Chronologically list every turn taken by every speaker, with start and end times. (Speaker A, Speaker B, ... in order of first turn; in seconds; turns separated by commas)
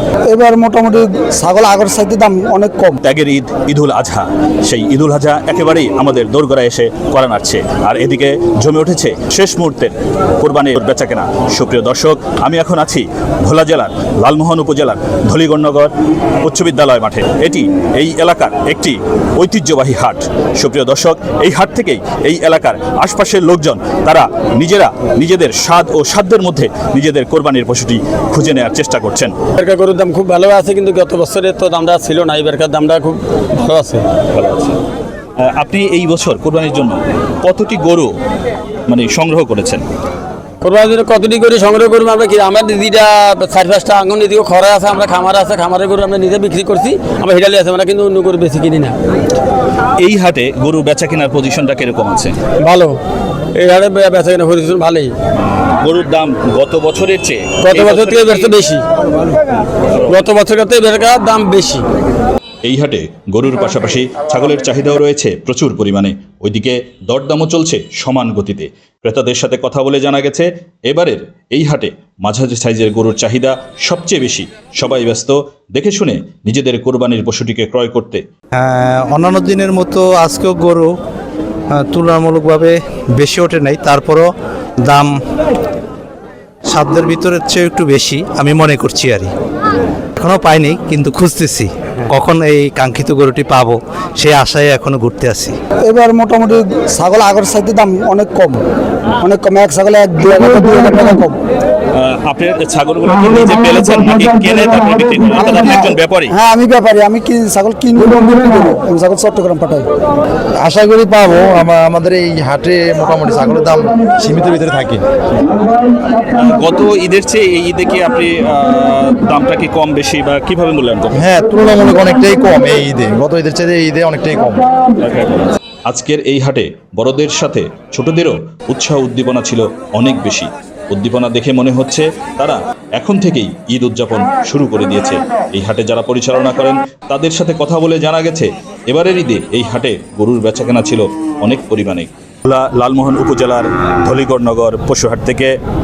Speaker A: 0.3-3.0, Speaker B: 3.0-29.3, Speaker C: 29.6-34.0, Speaker B: 34.3-34.8, Speaker B: 35.4-38.1, Speaker B: 38.9-39.8, Speaker C: 40.6-49.0, Speaker B: 50.0-52.4, Speaker C: 52.6-53.0, Speaker C: 53.5-55.1, Speaker B: 55.8-58.5, Speaker C: 57.6-58.8, Speaker C: 60.1-61.8, Speaker B: 62.6-78.2, Speaker D: 78.5-80.9, Speaker D: 81.7-84.3, Speaker D: 84.8-85.2, Speaker D: 86.7-89.3, Speaker D: 90.2-95.5, Speaker A: 95.9-98.6, Speaker A: 99.2-101.3, Speaker B: 101.9-106.3, Speaker A: 106.3-109.8, Speaker E: 110.6-115.0, Speaker B: 116.2-121.2, Speaker E: 121.1-124.7, Speaker B: 125.0-145.5